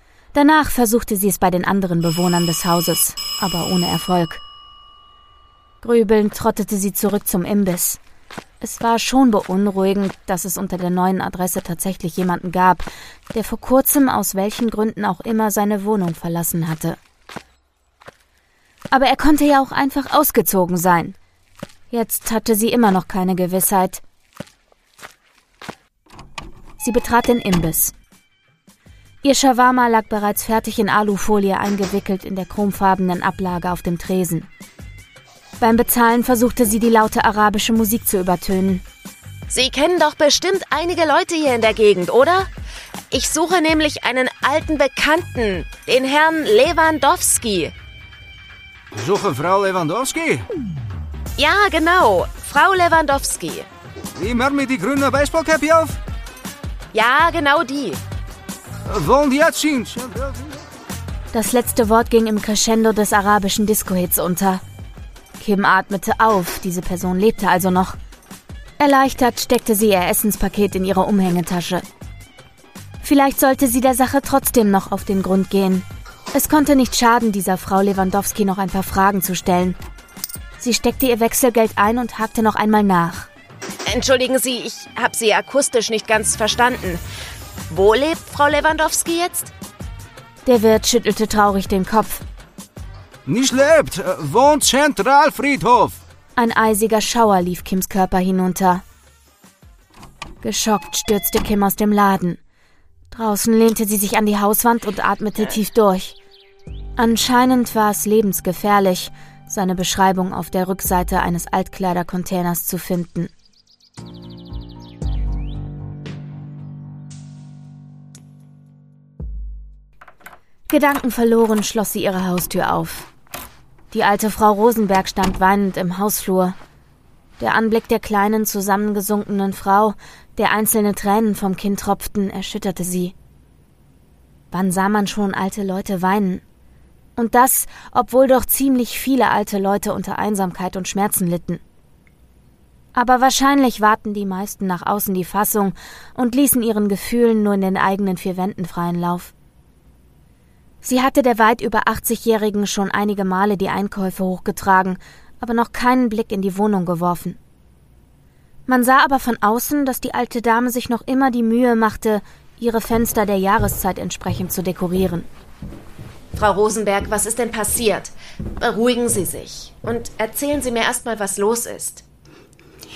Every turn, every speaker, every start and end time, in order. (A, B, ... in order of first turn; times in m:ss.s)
0:00.3-0:04.4 A
0:05.8-0:08.0 A
0:08.6-0:17.0 A
0:18.9-0:21.2 A
0:21.9-0:24.0 A
0:26.8-0:27.9 A
0:29.2-0:34.5 A
0:35.6-0:38.8 A
0:39.5-0:42.5 B
0:43.1-0:47.7 B
0:48.9-0:50.4 C
0:51.4-0:53.7 B
0:54.2-0:56.0 C
0:56.9-0:58.0 B
0:58.9-1:00.5 C
1:01.3-1:04.6 A
1:05.4-1:08.0 A
1:08.8-1:11.8 A
1:13.0-1:19.8 A
1:20.6-1:23.3 A
1:23.8-1:27.0 B
1:27.7-1:29.5 B
1:30.4-1:32.2 A
1:33.2-1:36.0 C
1:36.4-1:38.8 A
1:40.4-1:42.4 A
1:43.1-1:46.2 A
1:47.0-1:53.3 A
2:00.7-2:03.1 A
2:03.9-2:06.6 A
2:07.4-2:13.1 A
2:14.5-2:16.4 A
2:17.2-2:21.6 A
2:22.9-2:29.3 A
2:30.8-2:37.4 A
2:38.7-2:45.3 A
2:46.3-2:52.0 B